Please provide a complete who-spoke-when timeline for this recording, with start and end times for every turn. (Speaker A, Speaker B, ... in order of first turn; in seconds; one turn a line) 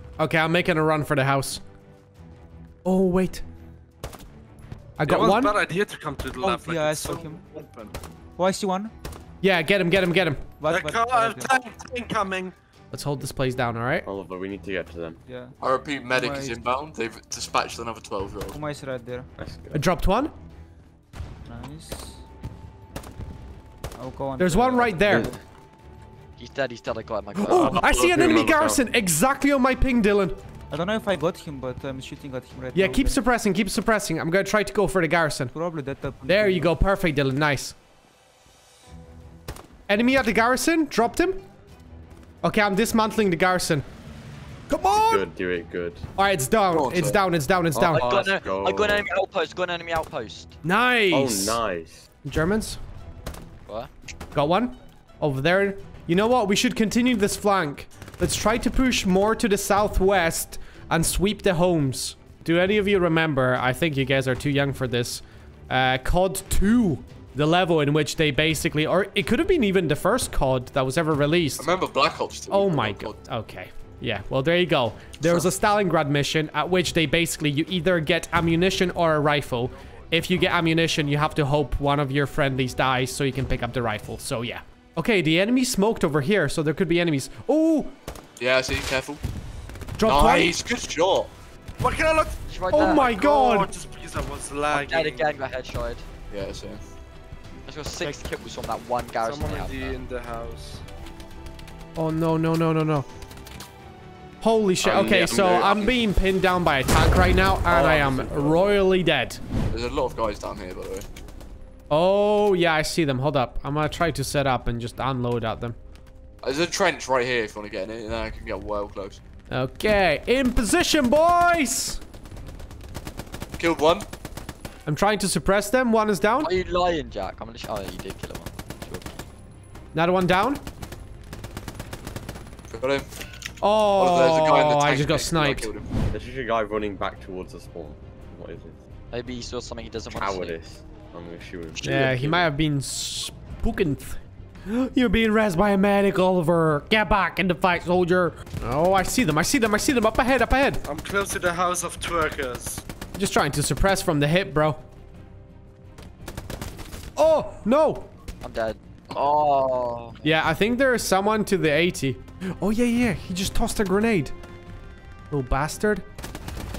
Speaker A: 0.2-1.6
Speaker A: 2.8-3.4
Speaker A: 5.0-5.6
Speaker B: 5.1-8.0
Speaker C: 6.4-7.6
Speaker C: 8.4-8.9
Speaker A: 9.4-10.5
Speaker C: 10.6-11.6
Speaker B: 10.7-12.6
Speaker A: 12.9-14.1
Speaker D: 14.1-15.2
Speaker C: 15.3-15.6
Speaker E: 15.6-18.6
Speaker C: 16.1-16.6
Speaker C: 18.5-19.3
Speaker D: 19.4-19.8
Speaker A: 19.7-20.3
Speaker C: 21.5-22.2
Speaker C: 23.9-25.3
Speaker A: 24.4-25.3
Speaker D: 25.1-25.4
Speaker F: 26.4-27.8
Speaker A: 27.4-30.4
Speaker D: 27.5-28.8
Speaker C: 30.7-33.2
Speaker A: 32.7-35.5
Speaker C: 35.5-36.8
Speaker A: 36.3-37.8
Speaker A: 39.9-41.4
Speaker A: 42.4-43.9
Speaker A: 44.7-45.2
Speaker D: 45.1-46.1
Speaker A: 46.2-48.1
Speaker E: 46.7-47.2
Speaker D: 47.7-49.1
Speaker F: 47.9-50.5
Speaker A: 50.6-51.6
Speaker D: 51.1-52.1
Speaker A: 52.2-52.8
Speaker A: 54.3-71.7
Speaker E: 71.6-73.2
Speaker A: 72.5-87.9
Speaker E: 75.2-75.5
Speaker E: 88.4-89.2
Speaker A: 90.0-90.5
Speaker E: 90.1-91.3
Speaker B: 91.8-95.4
Speaker F: 92.5-93.1
Speaker A: 92.7-93.7
Speaker F: 94.7-96.0
Speaker E: 96.3-96.8
Speaker F: 97.7-100.0
Speaker B: 99.2-100.8
Speaker A: 102.0-103.1
Speaker A: 104.4-109.4
Speaker D: 104.8-106.0
Speaker E: 107.7-108.8
Speaker E: 109.7-111.1
Speaker A: 111.9-115.8
Speaker E: 116.4-119.2
Speaker A: 119.5-122.0
Speaker E: 123.6-124.1
Speaker A: 124.9-126.5
Speaker F: 126.4-129.2
Speaker A: 129.9-130.6
Speaker E: 132.7-133.1
Speaker A: 133.6-135.7
Speaker E: 134.0-135.9
Speaker D: 136.1-138.8
Speaker F: 139.1-140.6
Speaker D: 140.1-142.5
Speaker A: 141.8-150.8
Speaker B: 150.8-152.8
Speaker A: 153.2-154.8
Speaker A: 157.2-158.1
Speaker F: 158.4-160.3
Speaker A: 160.2-164.3
Speaker A: 165.3-166.1